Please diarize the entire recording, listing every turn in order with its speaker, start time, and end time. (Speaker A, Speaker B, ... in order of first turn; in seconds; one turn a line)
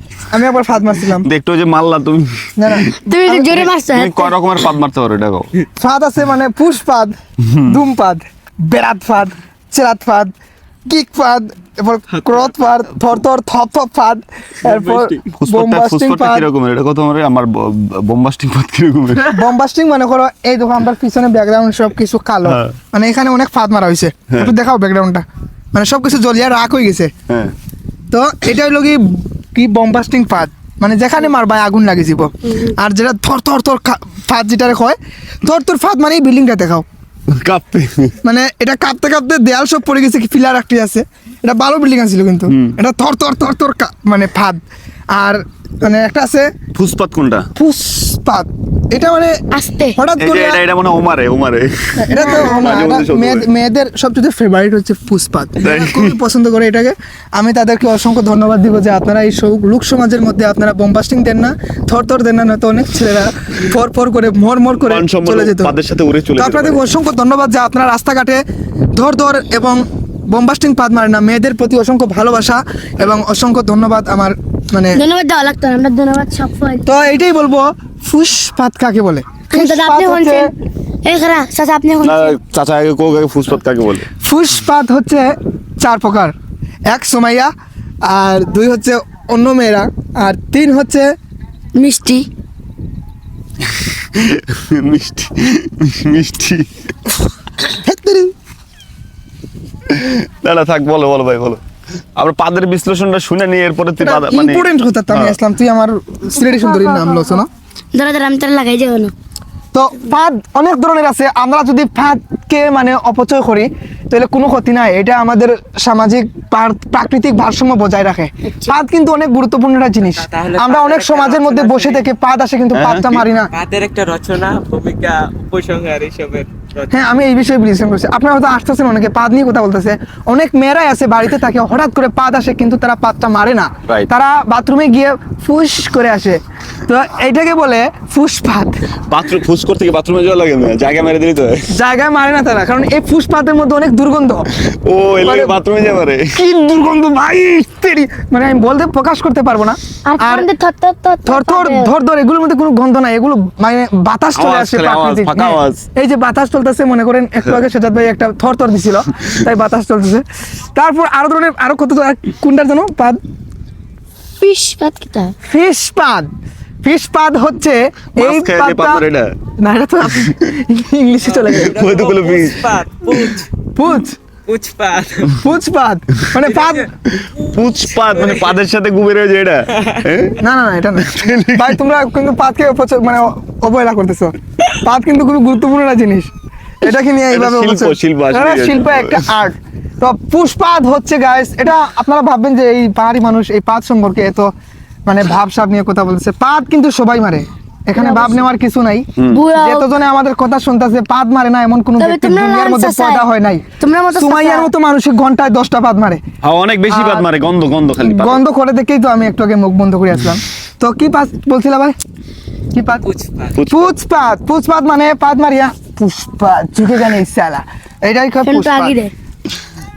Speaker A: 0.3-1.3
Speaker B: 1.2-2.9
Speaker A: 2.6-3.7
Speaker C: 3.1-4.3
Speaker B: 3.9-5.5
Speaker A: 5.8-10.3
Speaker A: 10.9-16.5
Speaker B: 15.3-19.3
Speaker A: 19.3-27.1
Speaker A: 28.1-36.8
Speaker B: 37.3-38.1
Speaker A: 38.2-44.6
Speaker B: 42.5-42.8
Speaker A: 45.1-46.5
Speaker B: 46.7-47.5
Speaker A: 47.5-49.4
Speaker C: 49.5-50.0
Speaker A: 50.0-50.6
Speaker B: 50.2-53.4
Speaker A: 52.0-65.7
Speaker C: 52.1-52.5
Speaker B: 55.6-56.2
Speaker B: 64.8-66.8
Speaker A: 66.3-68.4
Speaker A: 68.9-75.0
Speaker C: 74.9-76.8
Speaker A: 76.8-80.5
Speaker C: 79.5-80.5
Speaker C: 81.0-82.3
Speaker B: 82.0-84.1
Speaker A: 84.2-86.3
Speaker A: 86.9-87.5
Speaker A: 88.0-91.1
Speaker C: 91.7-92.2
Speaker B: 94.1-96.7
Speaker A: 97.7-98.3
Speaker B: 99.9-101.6
Speaker B: 102.2-105.3
Speaker A: 104.0-107.5
Speaker C: 107.9-109.1
Speaker A: 109.7-123.5
Speaker D: 120.1-122.0
Speaker B: 122.7-123.2
Speaker D: 123.5-126.9
Speaker A: 126.9-138.8
Speaker B: 139.1-141.6
Speaker A: 141.7-144.4
Speaker B: 144.7-146.4
Speaker A: 145.2-145.5
Speaker A: 146.3-150.5
Speaker C: 150.0-151.9
Speaker A: 151.2-163.2
Speaker B: 154.3-155.8
Speaker C: 164.4-165.3
Speaker A: 165.5-166.3
Speaker A: 166.8-169.0
Speaker B: 168.2-169.3
Speaker A: 169.6-171.8
Speaker D: 171.2-173.5
Speaker B: 171.6-173.3
Speaker A: 173.8-174.2
Speaker D: 174.5-175.4
Speaker A: 175.4-176.9
Speaker D: 176.4-178.6
Speaker B: 177.2-180.4
Speaker A: 180.4-194.5
Speaker B: 181.0-181.8
Speaker B: 187.3-189.2
Speaker A: 195.1-206.2
Speaker C: 197.9-198.4
Speaker B: 199.2-199.4
Speaker C: 199.2-199.9
Speaker C: 202.0-203.2
Speaker C: 203.8-204.7
Speaker B: 206.4-208.4
Speaker A: 206.9-207.2
Speaker A: 208.0-211.9
Speaker A: 212.7-213.0
Speaker D: 213.0-213.6
Speaker B: 213.5-213.9
Speaker A: 213.7-218.9
Speaker C: 218.4-219.1